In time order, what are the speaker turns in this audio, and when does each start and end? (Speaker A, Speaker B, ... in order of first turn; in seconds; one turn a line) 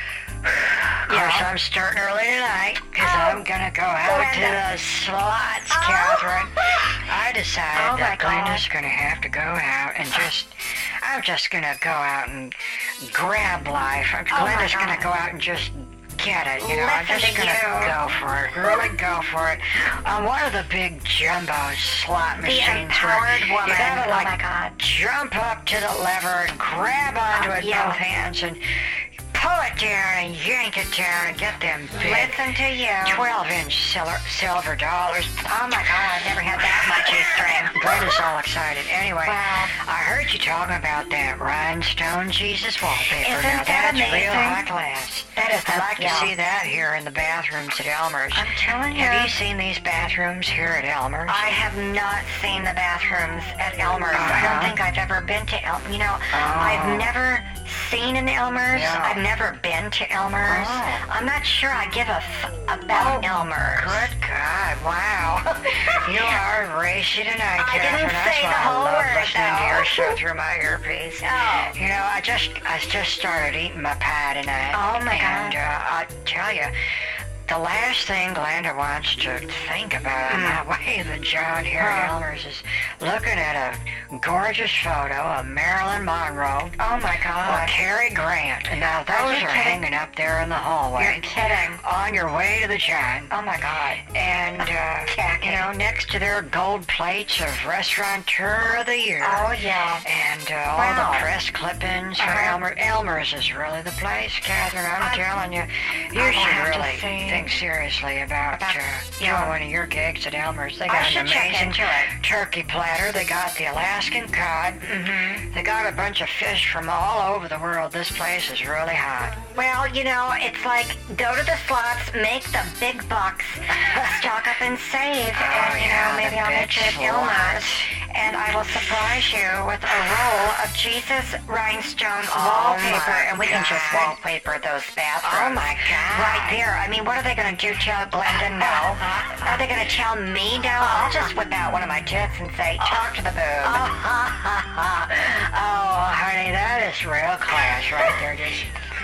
Speaker A: 0.5-32.4
Speaker B: 1.1-1.5
Speaker B: 3.0-3.4
Speaker B: 4.0-4.7
Speaker B: 5.7-6.9
Speaker B: 7.7-8.7
Speaker B: 14.3-15.1
Speaker B: 16.6-18.0
Speaker B: 22.4-25.0
Speaker B: 27.3-28.0
Speaker B: 32.0-33.2
Speaker A: 33.0-51.6
Speaker B: 35.5-38.0
Speaker B: 39.2-39.7
Speaker B: 43.2-44.6
Speaker B: 45.3-46.3
Speaker B: 48.3-49.4
Speaker B: 51.3-64.1
Speaker A: 54.1-54.8
Speaker A: 56.3-57.1
Speaker A: 58.7-59.2
Speaker A: 60.5-61.0
Speaker A: 62.9-86.8
Speaker B: 65.8-66.3
Speaker B: 67.6-70.2
Speaker B: 71.2-71.7
Speaker B: 74.7-75.6
Speaker B: 80.3-80.6
Speaker B: 81.8-82.2
Speaker B: 86.8-87.8
Speaker A: 87.4-93.3
Speaker B: 89.1-89.8
Speaker B: 91.0-91.8
Speaker B: 93.3-94.0
Speaker A: 94.0-119.4
Speaker B: 95.1-95.7
Speaker B: 99.2-100.0
Speaker B: 100.7-101.3
Speaker B: 102.2-102.6
Speaker B: 105.0-105.3
Speaker B: 106.1-107.5
Speaker B: 108.5-109.5
Speaker B: 110.9-112.1
Speaker B: 114.8-115.5
Speaker B: 119.5-143.9
Speaker A: 125.3-127.9
Speaker A: 132.2-134.2
Speaker A: 135.2-136.6
Speaker A: 138.3-139.6
Speaker A: 140.7-141.3
Speaker A: 142.8-148.8